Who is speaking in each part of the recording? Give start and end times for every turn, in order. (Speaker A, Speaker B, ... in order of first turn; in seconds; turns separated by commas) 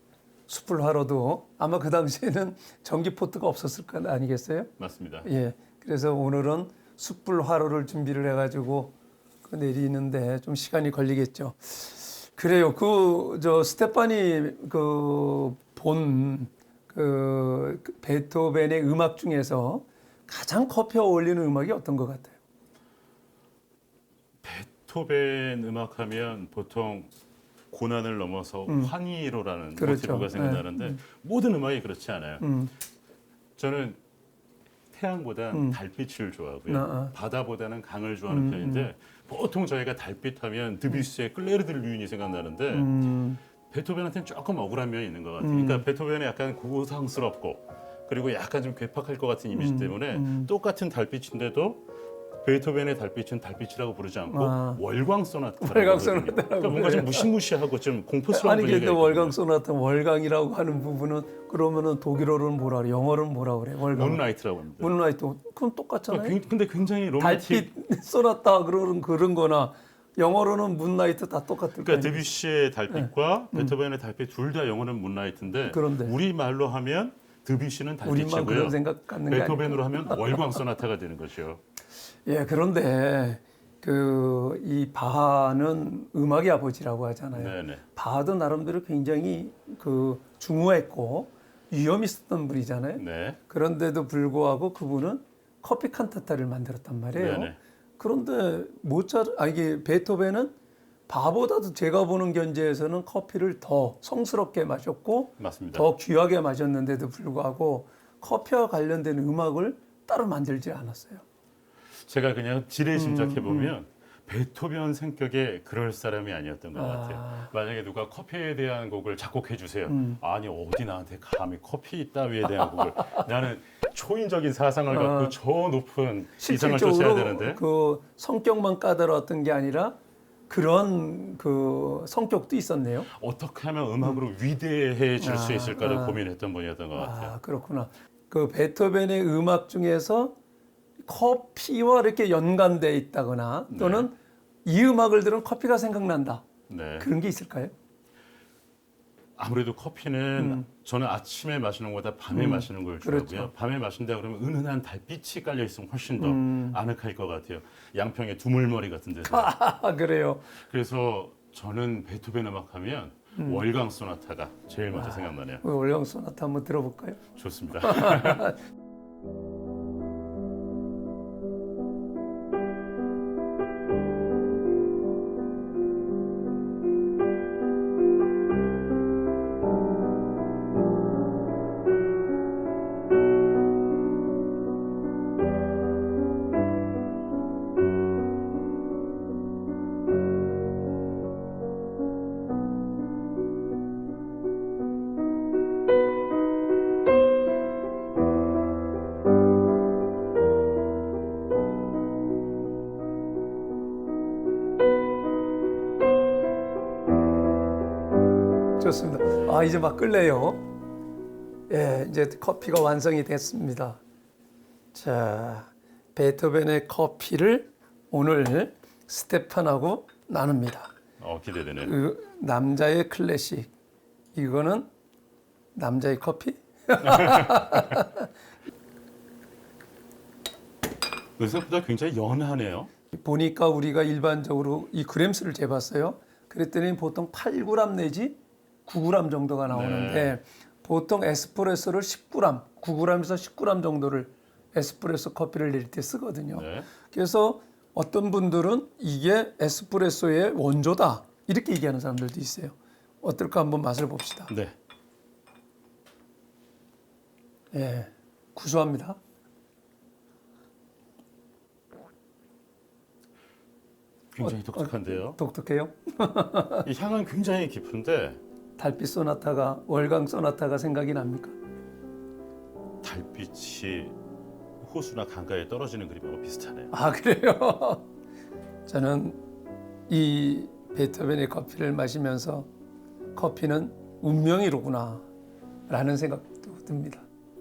Speaker A: 0.5-4.7, Speaker B: 4.8-5.3, Speaker A: 5.2-8.9, Speaker A: 9.4-22.4, Speaker B: 24.4-27.1, Speaker B: 27.7-32.5, Speaker A: 28.7-28.9, Speaker A: 29.8-31.0, Speaker A: 32.4-32.7, Speaker B: 33.6-34.0, Speaker B: 34.9-42.9, Speaker A: 35.5-35.8, Speaker A: 36.7-37.1, Speaker A: 38.3-38.9, Speaker A: 42.7-43.4, Speaker B: 43.7-51.8, Speaker A: 45.4-45.8, Speaker A: 49.5-50.5, Speaker B: 52.4-59.4, Speaker A: 54.3-54.8, Speaker A: 55.6-57.3, Speaker A: 58.3-64.2, Speaker B: 63.9-64.9, Speaker A: 64.8-66.4, Speaker B: 66.1-67.7, Speaker A: 67.2-72.3, Speaker B: 71.8-81.6, Speaker A: 72.9-73.8, Speaker A: 75.7-76.2, Speaker A: 78.0-80.6, Speaker A: 82.3-100.5, Speaker B: 87.3-87.8, Speaker B: 93.0-93.4, Speaker B: 97.2-97.6, Speaker A: 101.1-111.2, Speaker B: 105.4-105.9, Speaker B: 112.1-127.6, Speaker A: 113.0-113.8, Speaker A: 116.8-117.5, Speaker A: 119.9-120.2, Speaker A: 124.9-125.3, Speaker A: 126.4-130.0, Speaker A: 130.5-133.1, Speaker B: 133.1-137.3, Speaker A: 135.2-136.2, Speaker A: 136.9-140.4, Speaker A: 141.0-146.4, Speaker B: 143.7-144.1, Speaker B: 146.7-147.1, Speaker A: 147.0-147.7, Speaker B: 149.4-159.6, Speaker A: 150.4-150.7, Speaker A: 152.3-153.5, Speaker A: 156.2-156.8, Speaker A: 159.3-160.5, Speaker B: 160.6-165.6, Speaker A: 163.4-163.7, Speaker A: 164.9-167.2, Speaker B: 167.4-168.5, Speaker A: 167.8-168.6, Speaker A: 208.8-210.6, Speaker A: 211.7-214.0, Speaker A: 214.9-220.9, Speaker B: 221.2-221.9, Speaker A: 221.8-223.7, Speaker A: 224.3-224.9, Speaker A: 225.8-228.3, Speaker B: 231.4-232.9, Speaker A: 233.1-254.5, Speaker B: 239.7-240.3, Speaker B: 246.5-246.9, Speaker B: 254.5-254.8, Speaker A: 257.7-259.2, Speaker B: 264.3-265.4, Speaker A: 264.4-266.9, Speaker B: 266.8-268.4, Speaker A: 268.8-271.6, Speaker B: 273.0-274.2, Speaker B: 274.8-276.9, Speaker A: 276.9-278.1, Speaker A: 278.9-279.4, Speaker A: 280.1-282.7, Speaker A: 283.4-285.3, Speaker A: 285.9-287.3